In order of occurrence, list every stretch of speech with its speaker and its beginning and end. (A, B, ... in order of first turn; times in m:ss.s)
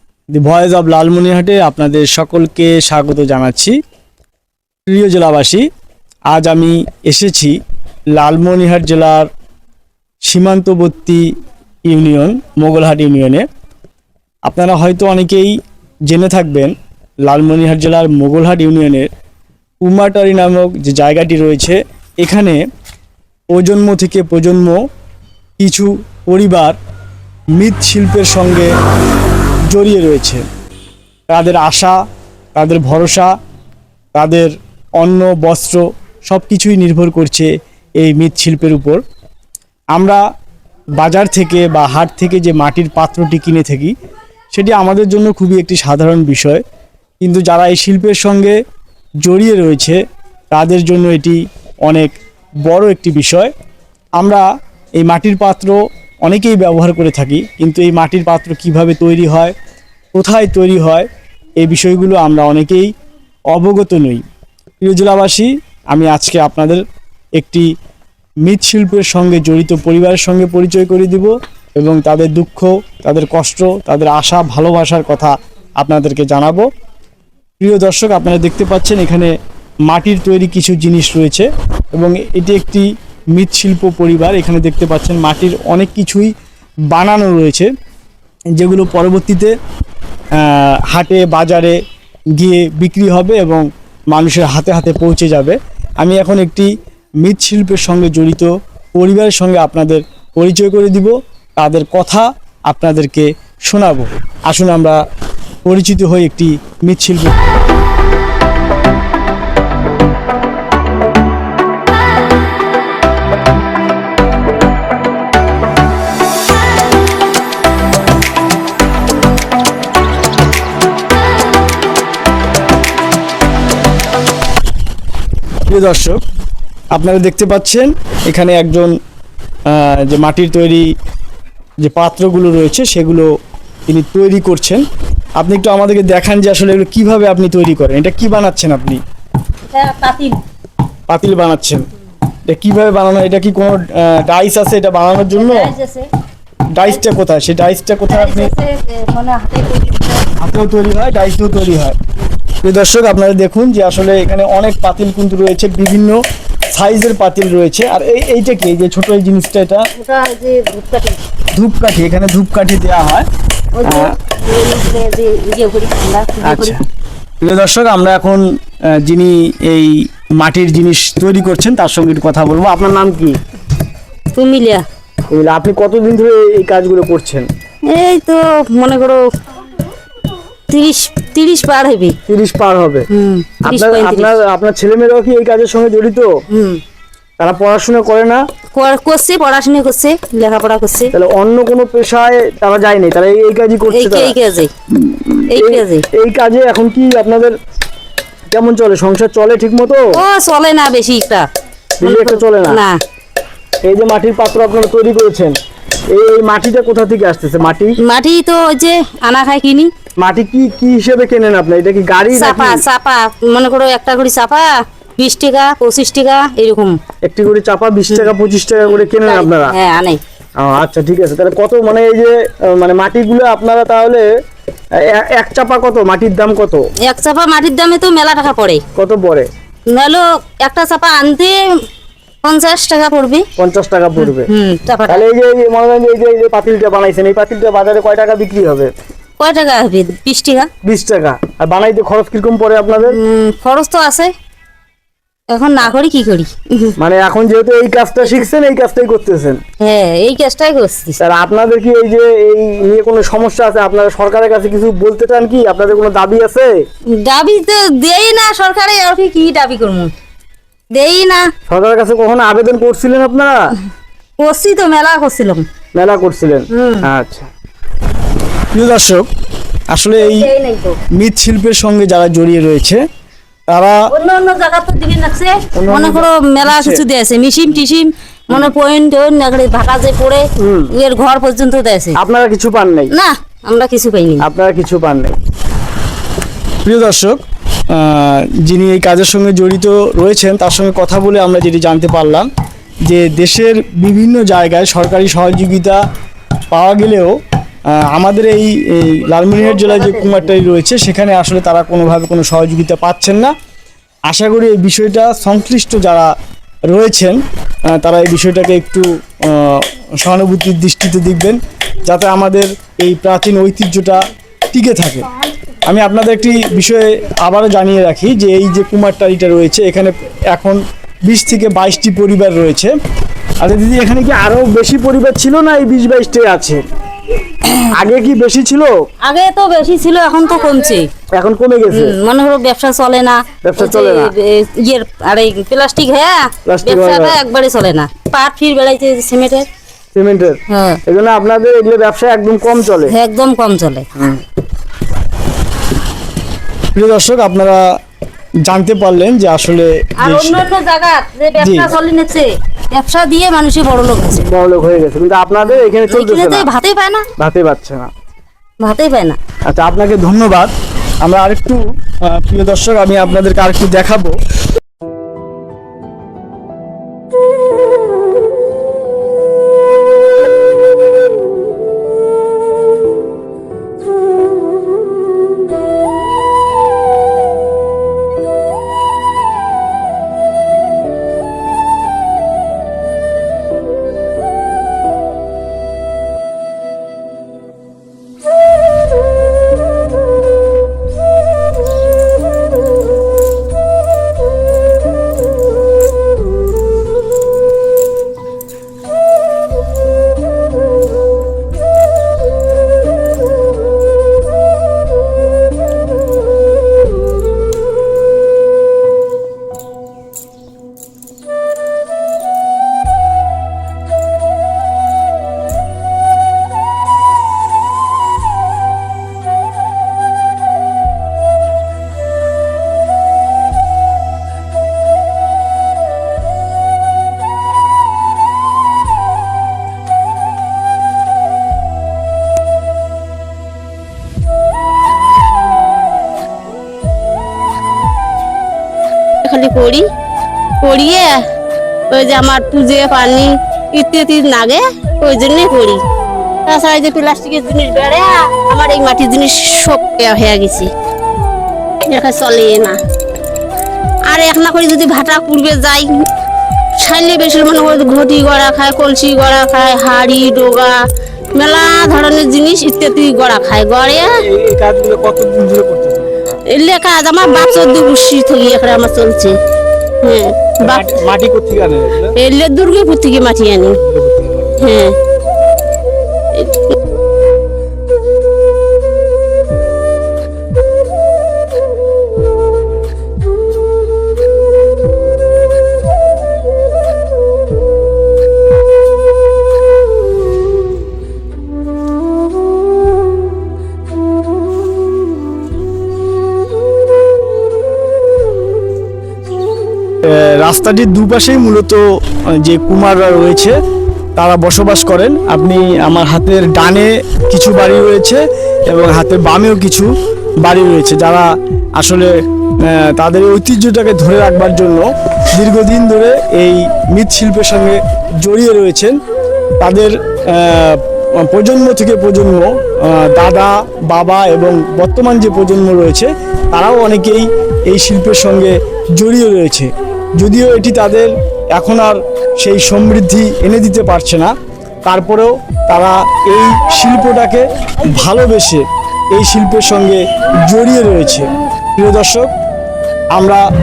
0:00.3-0:03.8 A
0:04.9-0:05.7 A
0:06.3-0:07.6 A
0:08.2-0:09.3 A
0:10.2-0:11.3 A
0:11.9-0:13.5 A
0:14.5-0:15.6 A
0:16.1-0:19.1 A
0:19.8-0:22.6 A
0:23.5-0:24.8 A
0:25.6-0:26.8 A
0:27.5-0:28.7 A
0:29.7-0:30.4 A
0:31.3-0:32.0 A
0:32.6-0:33.3 A
0:34.2-0:39.0 A
0:39.9-0:40.2 A
0:41.0-0:43.9 A
0:44.5-0:46.6 A
0:47.2-0:48.6 A
0:49.2-0:50.0 A
0:50.5-0:53.5 A
0:54.2-0:54.5 A
0:55.0-0:59.5 A
1:00.1-1:01.1 A
1:01.6-1:02.9 A
1:03.5-1:04.2 A
1:04.8-1:06.8 A
1:07.4-1:07.7 A
1:08.4-1:16.7 A
1:17.6-1:19.3 A
1:19.9-1:26.3 A
1:26.9-1:27.7 A
1:28.6-1:29.5 A
1:30.3-1:31.8 A
1:32.3-1:36.7 A
1:37.2-1:45.0 A
1:45.6-1:47.4 A
2:05.7-2:06.2 A
2:06.9-2:08.9 A
2:09.7-2:10.9 A
2:11.8-2:13.3 A
2:13.9-2:14.8 A
2:15.4-2:19.0 A
2:19.7-2:20.4 B
2:21.1-2:21.9 A
2:22.5-2:25.7 A
2:25.3-2:26.1 B
2:26.8-2:28.5 A
2:28.1-2:30.3 B
2:30.4-2:32.0 A
2:32.6-2:36.2 A
2:36.7-2:39.9 A
2:40.0-2:41.2 B
2:41.5-2:43.3 A
2:43.8-2:46.8 B
2:43.8-2:44.1 A
2:46.4-2:46.8 A
2:47.4-2:53.4 A
2:54.3-2:54.8 B
2:55.3-2:57.5 A
2:57.9-2:59.2 B
3:00.7-3:02.2 B
3:02.3-3:03.1 A
3:03.1-3:04.3 B
3:03.6-3:06.3 A
3:06.5-3:06.8 B
3:07.4-3:08.4 A
3:08.8-3:11.1 B
3:11.1-3:14.4 A
3:13.9-3:14.7 B
3:15.0-3:17.5 A
3:15.5-3:16.0 B
3:18.5-3:20.1 A
3:20.1-3:21.5 B
3:22.0-3:22.8 A
3:22.0-3:23.0 B
3:23.8-3:25.6 A
3:26.1-3:28.0 A
3:28.0-3:29.9 B
3:30.2-3:32.8 A
3:32.3-3:37.0 B
3:37.2-3:39.8 A
3:38.8-3:40.2 B
3:40.6-3:44.3 A
3:45.0-3:46.8 A
3:47.0-3:48.8 B
3:49.0-3:49.5 A
3:49.9-3:51.6 B
3:52.4-3:53.4 B
3:53.6-3:54.5 A
3:54.2-3:55.2 B
3:55.1-3:58.9 A
3:59.4-4:00.7 B
4:00.8-4:03.2 A
4:03.0-4:04.3 B
4:05.5-4:07.0 B
4:07.0-4:09.6 A
4:09.8-4:11.2 B
4:11.2-4:16.7 A
4:17.1-4:20.1 B
4:20.9-4:21.5 B
4:21.7-4:23.7 A
4:24.4-4:25.6 B
4:26.0-4:27.5 A
4:26.7-4:27.1 B
4:28.7-4:29.3 A
4:29.9-4:30.5 A
4:30.2-4:31.0 B
4:31.1-4:33.0 A
4:33.7-4:34.0 A
4:34.1-4:42.2 B
4:35.7-4:37.0 A
4:40.6-4:40.9 A
4:42.2-4:43.1 A
4:43.1-4:44.4 B
4:44.4-4:45.4 A
4:46.8-4:52.5 A
4:53.0-4:56.0 A
4:56.7-4:57.4 A
4:57.9-5:03.5 A
4:59.6-5:00.6 B
5:04.3-5:06.3 A
5:06.9-5:15.3 A
5:15.8-5:22.9 A
5:23.6-5:26.8 A
5:27.6-5:27.9 B
5:27.9-5:28.9 A
5:29.2-5:31.1 B
5:31.4-5:32.2 A
5:31.9-5:39.7 B
5:33.6-5:34.3 A
5:36.7-5:37.4 A
5:40.1-5:43.1 A
5:40.7-5:41.0 B
5:43.1-5:44.1 B
5:47.0-5:48.0 A
5:48.7-5:50.6 A
5:50.2-5:54.5 B
5:51.6-5:51.9 A
5:54.4-5:56.7 A
5:55.6-5:57.3 B
5:57.4-5:58.1 A
5:58.8-5:59.4 B
5:59.7-6:04.4 A
7:19.4-7:20.1 C
7:20.8-7:21.4 C
7:22.1-7:26.0 C
7:26.7-7:30.9 C
7:32.1-7:33.0 C
7:34.3-7:36.2 C
7:37.0-7:41.0 C
7:41.5-7:44.4 C
7:44.4-7:46.6 A
7:46.7-7:49.6 C
7:50.2-7:51.0 C
7:50.8-7:52.3 A
7:52.4-7:54.0 C
7:54.0-7:55.0 A
7:54.8-7:55.2 C
7:56.6-7:56.8 C
8:20.2-8:22.0 A
8:22.6-8:23.8 A
8:24.4-8:30.1 A
8:30.6-8:32.3 A
8:32.8-8:39.2 A
8:39.8-8:54.5 A
8:55.0-9:02.5 A
9:03.3-9:03.6 A